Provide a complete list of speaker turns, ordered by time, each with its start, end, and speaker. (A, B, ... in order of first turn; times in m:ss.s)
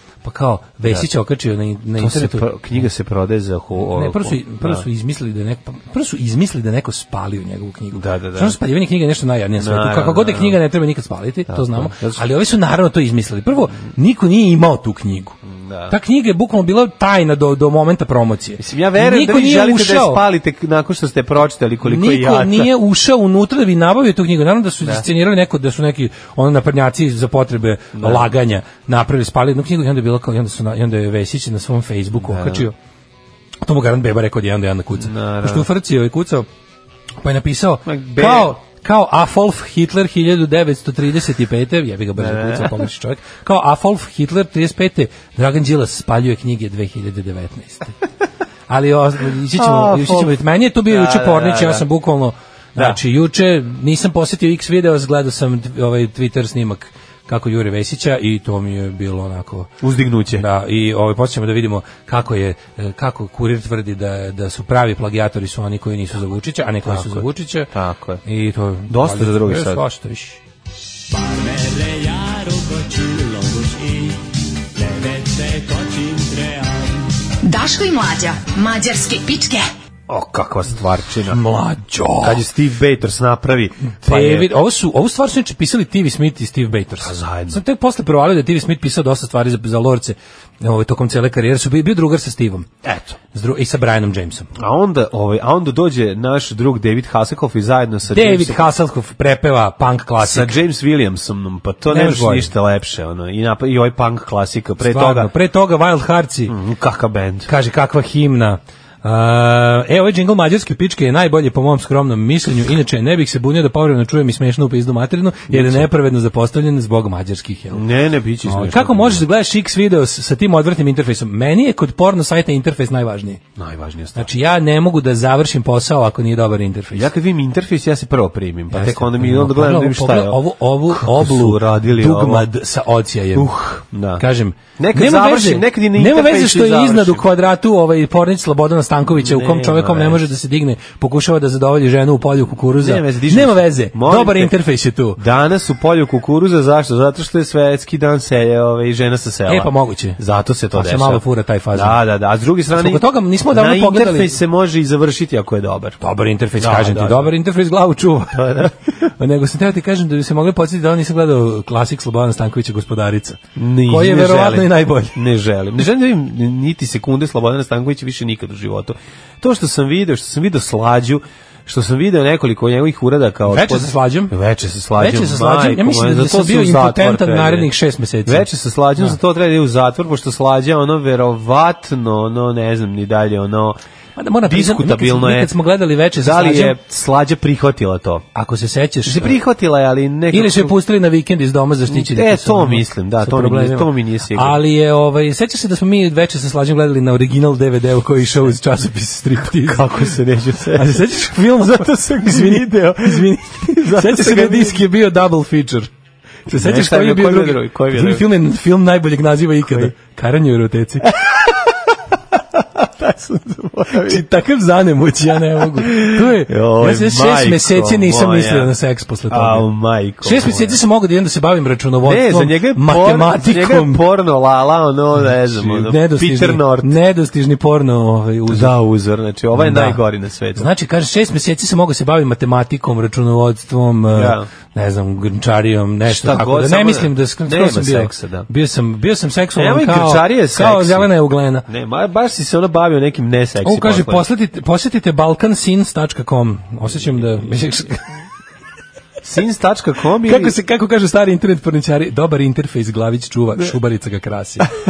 0:00.2-0:02.5 A
0:02.0-0:04.8 B
0:03.9-0:15.4 A
0:07.9-0:08.6 B
0:09.6-0:10.6 B
0:11.5-0:12.2 B
0:15.4-0:15.9 B
0:15.9-0:20.2 A
0:18.6-0:22.7 B
0:21.8-0:32.7 A
0:27.9-0:28.3 B
0:32.1-0:32.7 B
0:33.6-0:36.5 A
0:35.0-0:35.7 B
0:37.2-0:48.0 A
0:37.8-0:38.5 B
0:42.2-0:42.9 B
0:48.7-0:59.7 A
0:49.5-0:51.8 B
0:59.8-1:00.4 B
1:00.3-1:07.7 A
1:06.8-1:08.2 B
1:08.2-1:10.4 A
1:08.9-1:09.8 B
1:17.4-1:19.7 C
1:20.1-1:21.4 B
1:21.3-1:22.4 A
1:22.2-1:24.5 B
1:24.0-1:32.7 A
1:27.0-1:27.6 B
1:32.8-1:33.1 B
1:33.3-1:34.5 A
1:34.6-1:38.6 B
1:38.1-1:40.6 A
1:40.2-1:45.3 B
1:41.9-1:42.5 A
1:44.8-1:46.5 A
1:46.5-1:47.5 B
1:47.5-1:57.8 A
1:55.5-1:55.9 B
1:57.7-1:59.2 B
1:58.4-2:03.4 A
2:03.6-2:04.3 B
2:04.1-2:07.1 A
2:06.9-2:12.5 B
2:08.7-2:13.5 A
2:13.3-2:14.2 B
2:14.2-2:25.2 A
2:14.8-2:17.2 B
2:19.1-2:20.2 B
2:22.7-2:24.5 B
2:25.2-2:36.0 B
2:29.5-2:30.2 A
2:30.7-2:32.0 A
2:32.7-2:34.4 A
2:36.0-2:38.6 A
2:36.6-2:37.3 B
2:38.3-2:38.7 B
2:39.2-2:45.2 A
2:43.6-2:57.7 B
2:53.4-2:54.3 A
2:55.0-2:59.2 A
2:58.2-3:03.8 B
3:04.2-3:06.8 A
3:04.4-3:05.5 B
3:06.2-3:08.2 B
3:08.3-3:09.4 A
3:09.0-3:10.8 B
3:10.3-3:20.1 A
3:11.9-3:14.6 B
3:19.5-3:21.0 B
3:20.7-3:25.9 A
3:21.6-3:24.8 B
3:26.5-3:31.1 A
3:26.5-3:28.2 B
3:29.6-3:29.9 B
3:31.0-3:34.2 B
3:33.9-3:39.7 A
3:35.6-3:38.7 B
3:39.3-3:40.8 B
3:40.2-3:44.0 A
3:42.0-3:47.0 B
3:45.2-3:48.7 A
3:48.5-3:50.7 B
3:49.5-3:50.0 A
3:50.5-4:01.6 A
3:54.1-3:54.5 B
3:56.0-3:58.5 B
3:59.6-4:01.1 B
4:01.6-4:04.2 B
4:03.6-4:08.0 A
4:06.9-4:07.4 B
4:09.2-4:10.6 B
4:10.2-4:14.7 A